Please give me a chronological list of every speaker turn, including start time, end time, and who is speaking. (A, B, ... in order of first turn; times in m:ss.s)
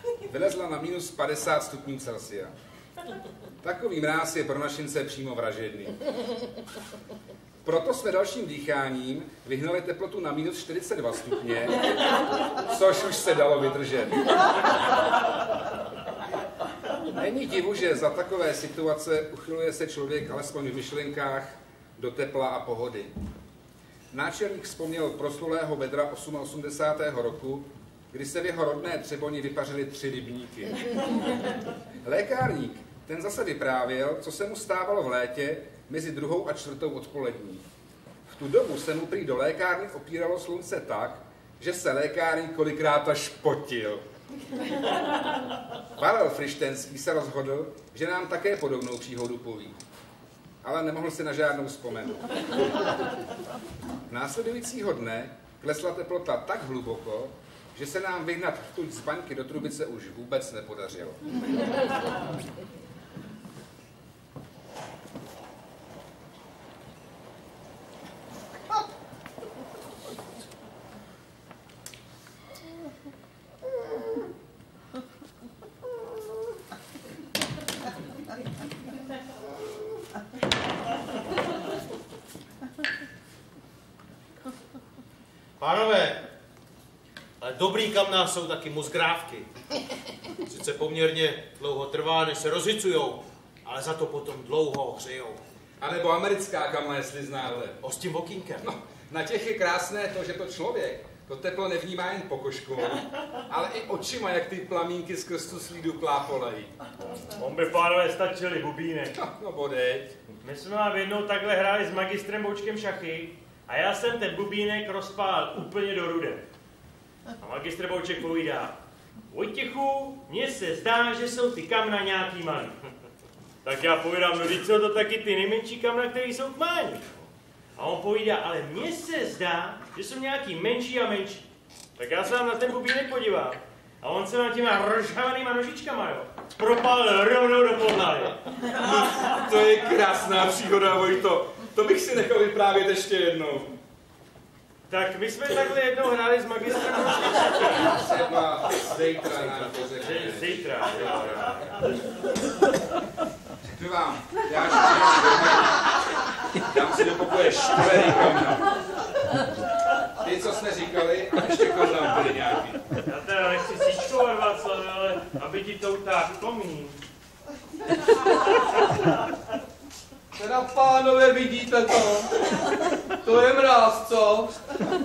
0:00.3-0:02.5 A
0:03.6-0:06.0 A
0:07.6-0:11.8 A
0:12.6-0:14.4 A
0:17.1-0:23.1 A
0:24.1-0:31.0 A
0:32.0-0:37.6 A
0:38.3-0:44.0 A
0:46.0-0:49.8 A
0:50.6-0:52.3 A
0:54.1-1:01.2 A
1:25.6-1:26.3 B
1:27.4-1:29.5 B
1:30.4-1:35.4 B
1:35.8-1:37.8 A
1:37.8-1:38.7 B
1:38.6-1:46.7 A
1:47.4-1:49.1 C
1:49.1-1:50.2 A
1:50.4-1:56.4 C
1:57.4-1:58.8 C
1:59.3-2:02.9 C
2:03.6-2:18.4 C
2:18.8-2:23.7 A
2:24.9-2:27.9 C
2:27.8-2:31.7 A
2:29.2-2:29.8 B
2:30.0-2:31.7 C
2:33.8-2:35.8 A
2:36.6-2:38.7 A
2:40.2-2:42.8 A
2:43.1-2:47.0 C
2:50.4-2:52.6 D
2:53.2-2:54.5 D